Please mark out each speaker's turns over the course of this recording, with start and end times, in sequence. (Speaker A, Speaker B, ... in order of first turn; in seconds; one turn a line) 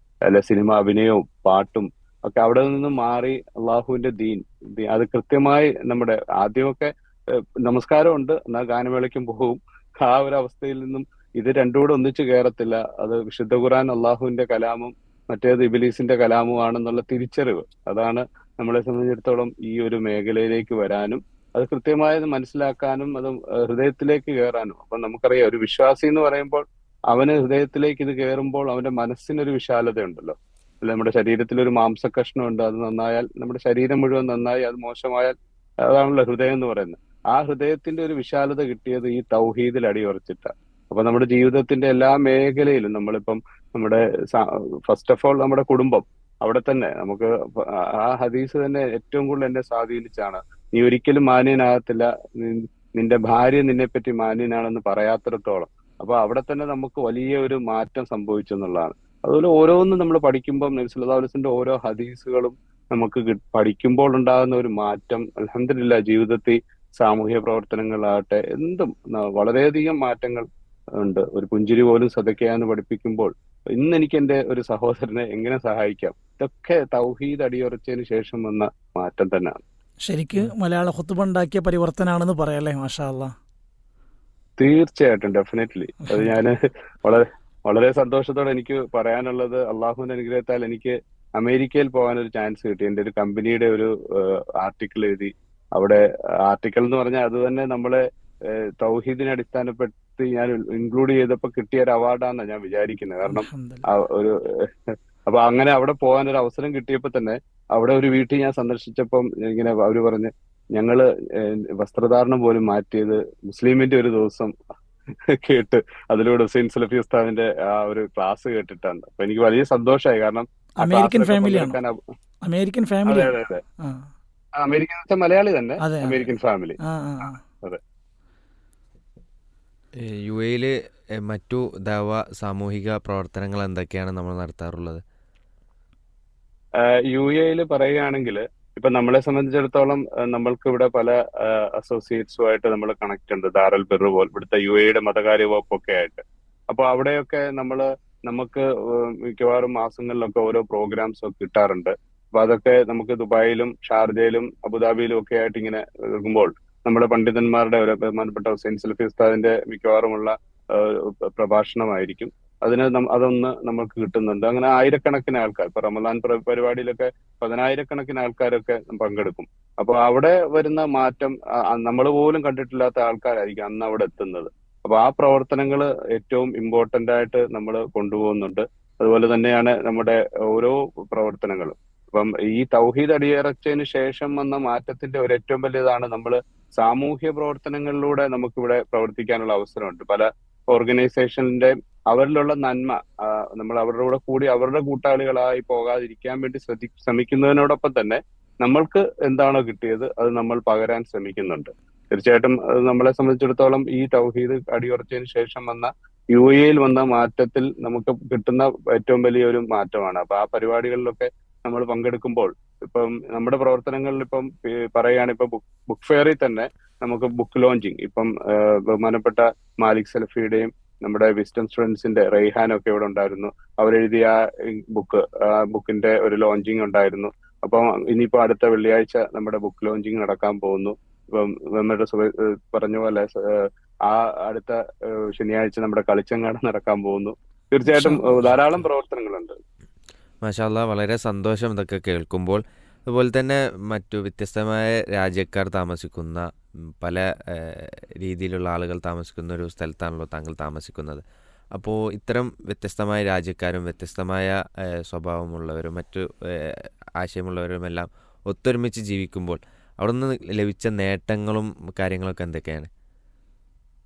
Speaker A: 0.3-70.5
Speaker A: 71.0-79.6
Speaker B: 80.1-83.3
Speaker A: 84.6-114.5
Speaker B: 103.3-103.9
Speaker A: 115.1-122.0
Speaker B: 120.8-121.8
Speaker B: 122.5-124.1
Speaker A: 123.1-123.6
Speaker A: 124.6-127.8
Speaker B: 125.8-126.3
Speaker B: 126.8-127.4
Speaker C: 130.0-135.0
Speaker A: 136.8-239.6
Speaker B: 237.9-238.6
Speaker C: 240.4-246.5
Speaker C: 247.0-251.2
Speaker C: 251.8-262.9